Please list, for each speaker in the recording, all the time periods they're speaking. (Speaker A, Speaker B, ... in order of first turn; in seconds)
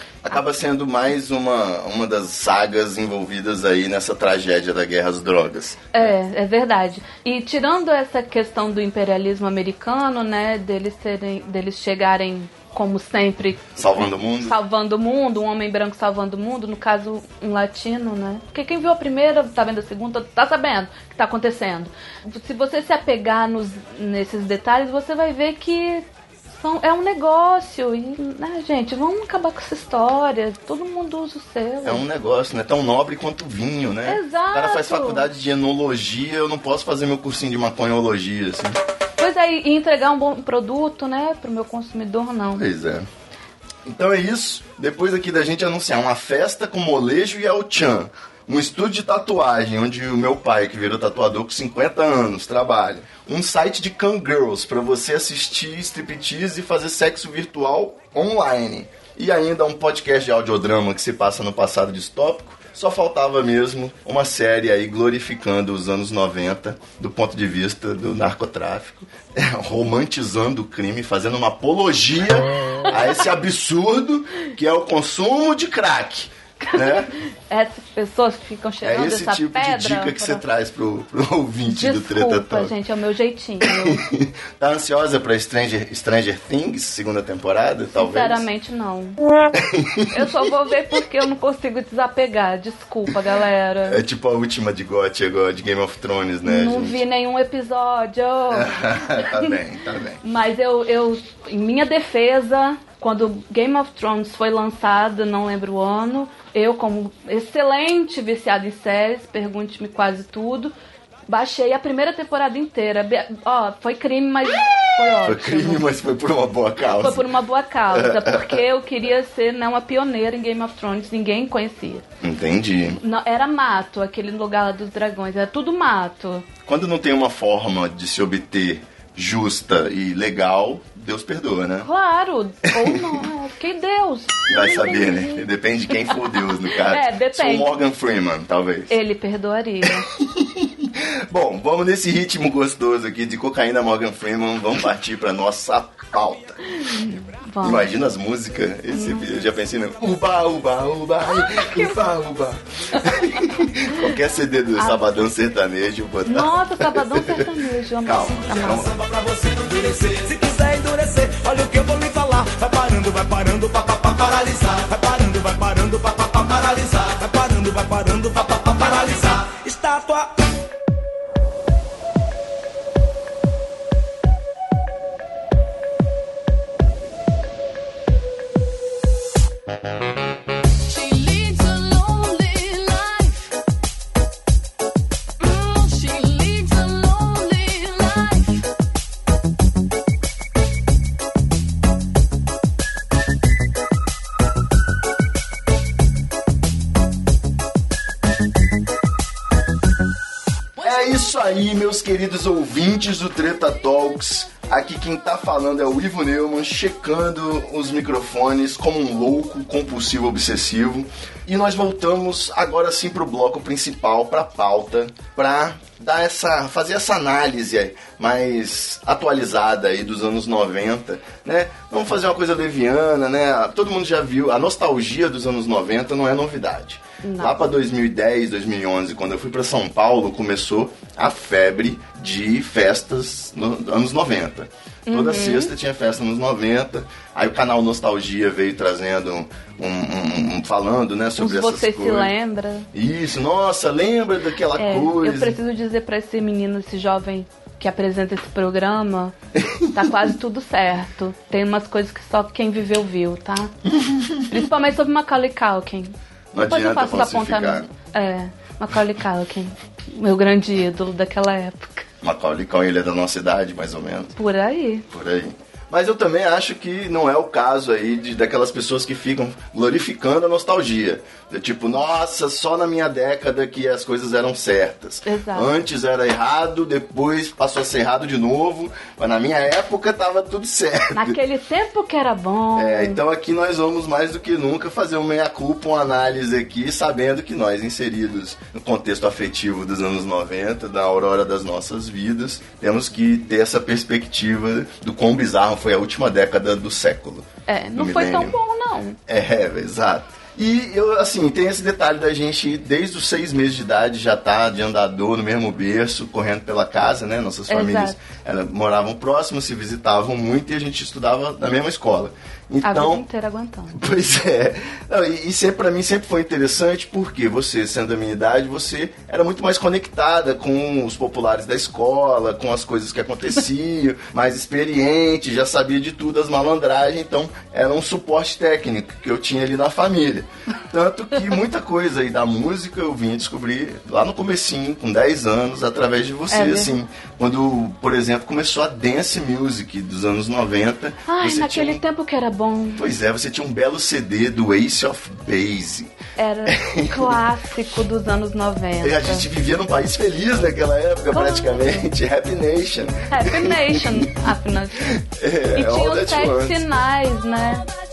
Speaker A: 0.2-6.1, 13.8-14.6, 31.8-38.8, 42.5-43.1, 43.8-77.1, 78.8-82.7, 83.6-88.5, 89.5-90.3, 93.8-97.0, 98.5-100.2, 115.1-117.3, 117.9-118.6, 122.2-123.0, 126.7-131.9, 132.7-133.2, 134.5-139.0, 139.8-146.6, 147.6-157.5, 158.0-158.9, 200.8-242.3, 242.9-245.6, 249.6-249.9, 254.0-254.4, 256.5-257.9, 262.2-264.3, 265.1-281.4, 282.8-298.6, 299.3-313.2, 313.9-342.0, 343.0-346.1, 346.6-347.4, 349.0-354.3, 355.0-356.9
Speaker B: 5.9-32.0, 34.0-35.3, 39.2-42.6, 76.6-80.4, 81.7-84.0, 87.9-89.2, 90.1-94.0, 96.4-99.5, 100.2-110.7, 111.3-115.8, 117.0-122.0, 123.0-126.5, 131.8-135.5, 136.0-137.8, 138.9-140.1, 146.7-147.9, 148.9-149.3, 151.2-152.0, 153.0-153.5, 156.2-158.9, 227.2-227.7, 235.1-235.7, 241.4-242.9, 244.8-249.3, 249.9-253.8, 254.5-262.1, 264.4-265.1, 275.2-275.7, 281.1-283.2, 297.7-299.2, 307.7-308.2, 312.8-314.0, 336.5-336.9, 341.2-343.1, 346.4-349.5, 351.3-352.1, 353.3-355.1, 355.7-357.9
Speaker C: 158.6-170.3
Speaker D: 180.9-183.5, 185.4-188.6